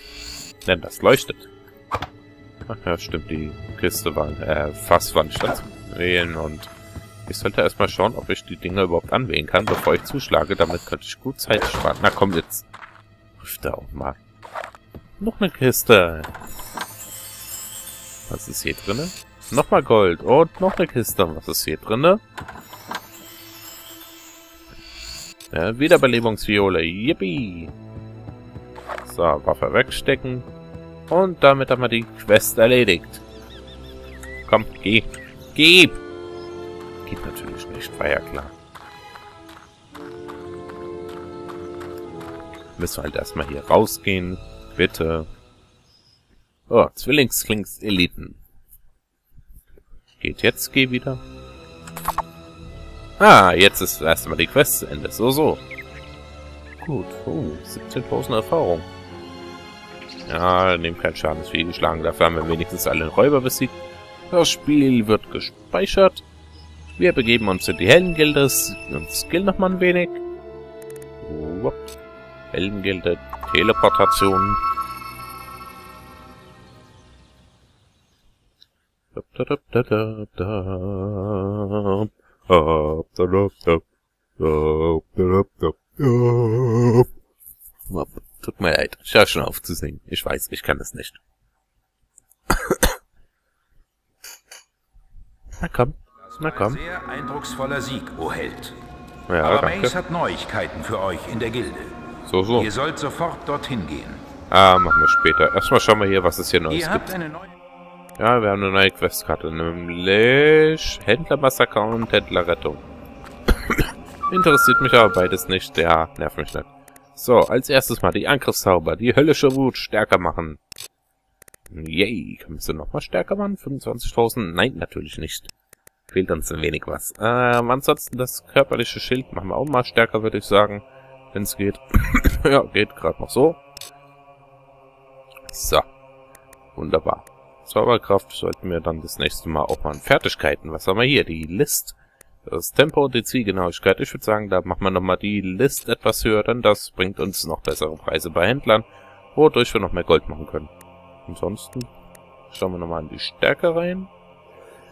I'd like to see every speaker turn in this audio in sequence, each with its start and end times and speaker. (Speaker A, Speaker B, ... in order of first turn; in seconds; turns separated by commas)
Speaker A: 0.6-1.5, Speaker A: 2.7-6.7, Speaker A: 7.3-12.6, Speaker A: 13.4-14.2, Speaker A: 15.2-16.3, Speaker A: 18.3-22.2, Speaker A: 25.5-27.7, Speaker A: 29.0-30.5, Speaker A: 31.1-33.2, Speaker A: 34.5-36.0, Speaker A: 37.0-38.5, Speaker A: 42.8-45.3, Speaker A: 46.7-48.4, Speaker A: 50.2-51.2, Speaker A: 53.2-55.6, Speaker A: 56.8-58.9, Speaker A: 60.3-63.7, Speaker A: 64.3-66.2, Speaker A: 67.0-70.2, Speaker A: 71.2-71.9, Speaker A: 72.5-74.6, Speaker A: 79.1-83.8, Speaker A: 84.4-87.1, Speaker A: 87.9-91.2, Speaker A: 92.7-92.9, Speaker A: 95.6-96.8, Speaker B: 96.2-98.8, Speaker A: 99.3-99.9, Speaker B: 99.4-101.9, Speaker A: 102.2-102.7, Speaker B: 102.5-104.2, Speaker A: 104.5-107.1, Speaker B: 106.7-107.5, Speaker A: 108.2-112.8, Speaker A: 113.7-120.6, Speaker A: 121.7-125.5, Speaker A: 126.1-133.6, Speaker A: 135.5-135.8, Speaker A: 136.8-150.7, Speaker A: 151.3-151.9, Speaker A: 152.5-154.1